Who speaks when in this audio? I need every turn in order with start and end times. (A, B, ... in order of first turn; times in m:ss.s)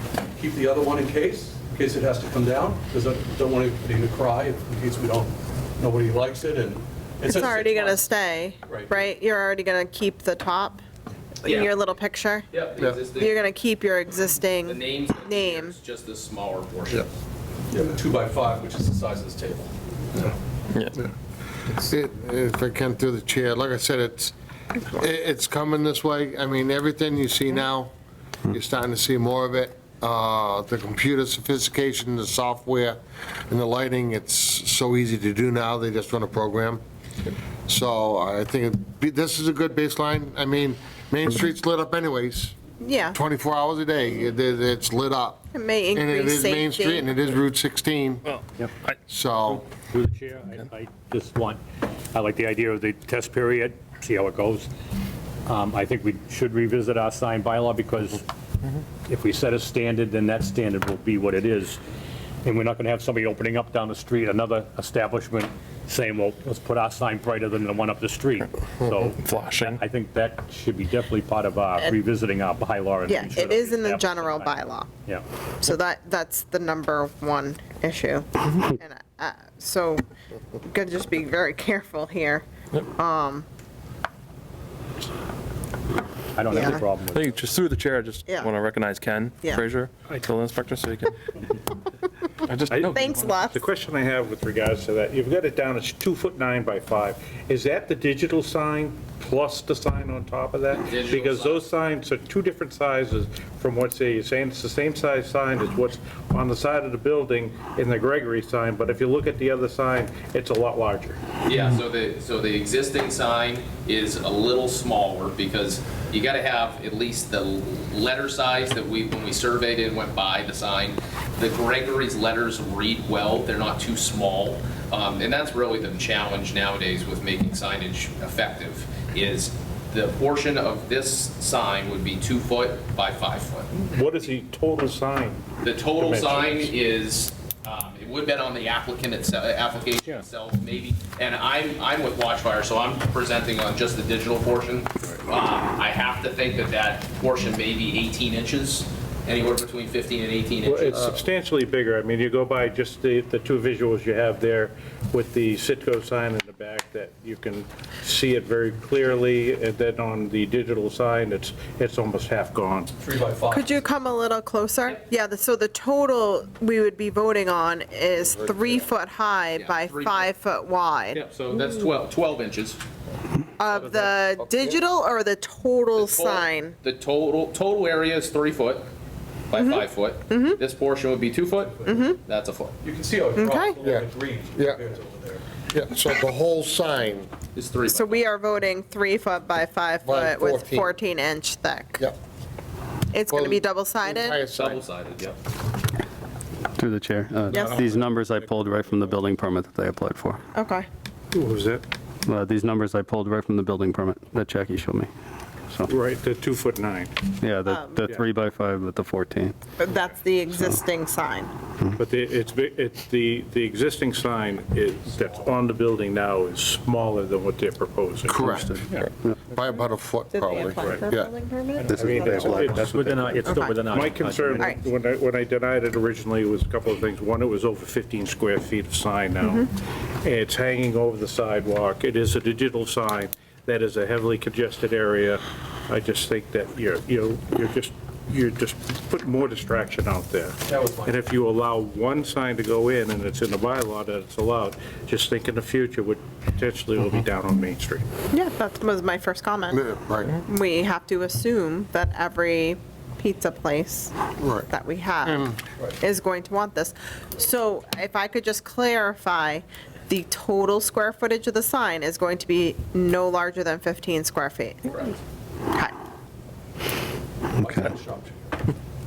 0:00.4-0:08.0 A
0:07.3-0:10.8 B
0:08.7-0:09.0 A
0:11.4-0:12.5 B
0:11.5-0:11.9 C
0:12.5-0:13.4 C
0:13.1-0:15.8 B
0:14.6-0:17.1 C
0:17.7-0:20.4 A
0:20.7-0:21.0 D
0:21.8-0:24.3 E
0:24.8-0:27.9 E
0:28.5-0:36.8 E
0:37.7-0:48.3 E
0:42.8-0:43.2 B
0:45.5-0:47.1 B
0:48.3-0:49.0 D
0:49.1-0:49.6 E
0:49.4-0:51.6 F
0:52.1-0:54.7 F
0:55.5-0:58.2 F
0:59.0-1:01.8 F
1:02.4-1:15.2 F
1:08.9-1:09.8 D
1:13.1-1:14.9 B
1:15.6-1:20.0 B
1:20.6-1:23.5 B
1:26.4-1:27.6 F
1:26.5-1:26.8 B
1:27.1-1:31.2 D
1:28.3-1:28.5 B
1:32.4-1:33.2 D
1:32.7-1:51.2 G
1:32.9-1:33.6 B
1:40.8-1:41.6 C
1:51.4-2:14.3 C
2:13.8-2:15.4 G
2:15.6-2:31.2 C
2:16.0-2:16.7 G
2:30.6-2:42.9 G
2:43.0-2:43.8 A
2:43.5-2:51.2 B
2:48.2-2:48.9 E
2:49.6-2:50.3 C
2:51.1-2:52.8 C
2:53.6-2:56.8 B
2:53.8-2:54.0 C
2:56.0-2:58.9 C
2:59.5-3:02.8 C
2:59.6-3:00.6 B
3:01.6-3:02.0 A
3:01.9-3:02.2 B
3:02.8-3:05.4 A
3:03.4-3:03.8 B
3:05.7-3:07.3 E
3:07.5-3:08.3 C
3:07.8-3:12.1 B
3:10.0-3:10.9 E
3:13.1-3:14.4 B
3:13.3-3:14.8 E
3:14.5-3:15.4 C
3:16.8-3:20.4 H
3:17.5-3:17.8 B
3:20.6-3:20.9 B
3:21.3-3:21.8 G
3:22.3-3:25.1 H
3:25.9-3:27.4 G
3:27.4-3:29.6 H
3:27.7-3:28.1 B
3:29.8-3:31.5 B
3:32.0-3:39.0 G
3:38.3-3:41.3 E
3:40.3-3:42.6 B
3:41.9-3:42.5 D
3:41.9-3:44.7 F
3:41.9-3:49.7 G
3:43.4-3:43.9 B
3:49.4-3:49.7 B
3:50.2-4:08.1 G
4:00.7-4:01.3 A
4:08.3-4:09.8 B
4:09.7-4:10.4 E
4:10.4-4:14.2 B
4:14.4-4:14.7 E
4:14.7-4:26.0 B
4:15.2-4:15.6 E
4:24.9-4:25.1 C
4:27.6-4:28.6 A